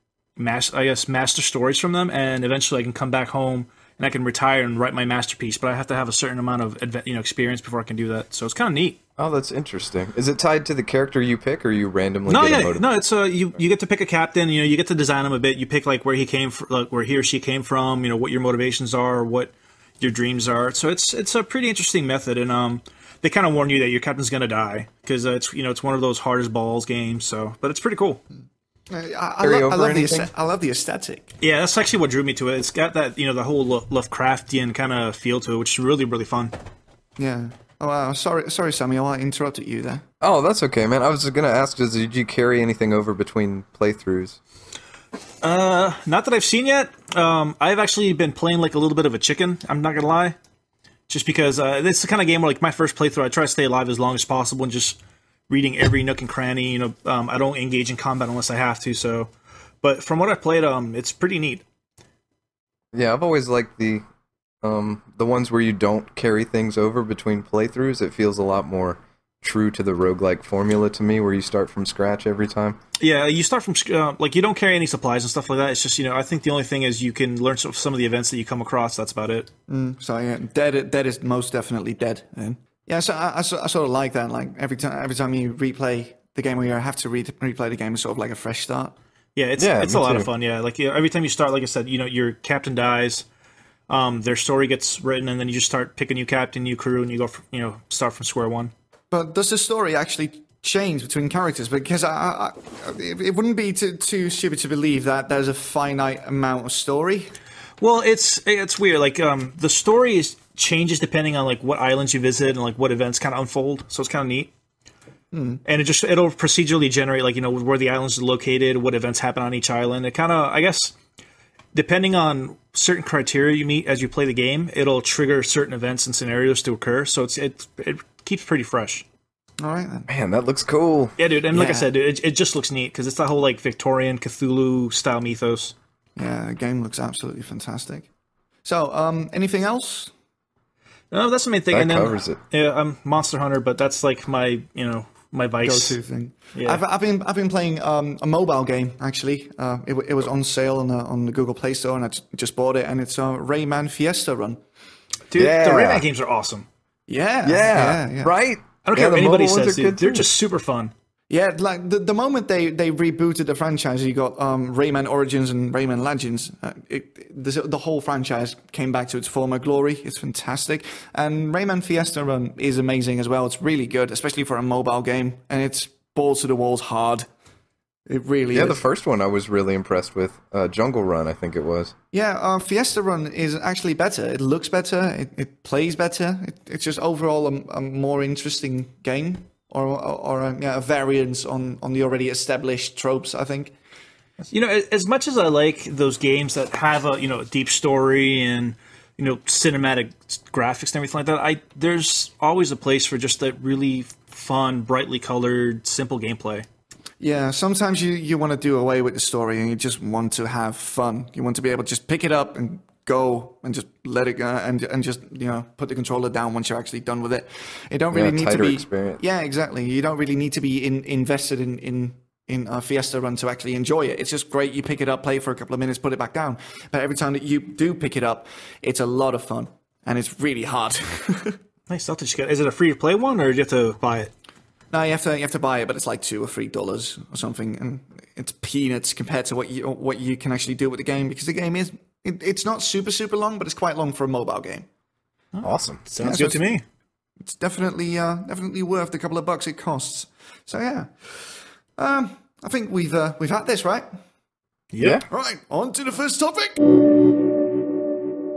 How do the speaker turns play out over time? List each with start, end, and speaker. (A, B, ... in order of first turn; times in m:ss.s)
0:00.4-0:09.0 A
0:09.2-0:12.9 B
0:12.3-0:28.2 A
0:28.9-0:31.3 C
0:29.4-0:30.3 B
0:31.4-0:36.5 A
0:37.2-0:40.0 C
0:40.2-0:44.4 B
0:45.4-0:50.4 A
0:51.1-0:55.0 A
0:55.5-0:59.3 A
0:59.8-1:01.6 A
1:02.9-1:04.0 B
1:04.6-1:12.8 B
1:13.0-1:19.5 A
1:19.7-1:28.9 C
1:29.4-1:33.2 A
1:29.6-1:30.3 B
1:33.9-1:38.7 A
1:39.1-1:47.3 C
1:47.8-1:54.5 A
1:55.3-1:55.6 C
1:55.6-2:00.9 A
2:01.7-2:09.1 A
2:09.6-2:10.1 C
2:10.1-2:11.2 B
2:11.2-2:15.8 A
2:11.5-2:11.9 C
2:16.2-2:18.1 C
2:18.6-2:20.1 C
2:21.1-2:26.0 A
2:21.7-2:22.4 B
2:25.6-2:34.6 C
2:26.5-2:26.8 A
2:35.3-2:36.7 A
2:35.4-2:36.0 B
2:37.1-2:38.3 C
2:37.4-2:40.3 B
2:38.8-2:40.9 A
2:41.3-2:57.3 C
2:58.1-2:58.8 C
2:58.5-3:02.0 B
3:02.1-3:13.7 C
3:14.5-3:26.6 A
3:27.2-3:51.6 C
3:38.1-3:39.2 B
3:51.9-3:54.3 A
3:54.9-4:04.9 C
4:05.5-4:06.8 A
4:05.6-4:06.0 B
4:06.2-4:06.6 C
4:07.4-4:14.1 C
4:14.9-4:15.2 A
4:15.0-4:15.2 B
4:15.3-4:17.0 C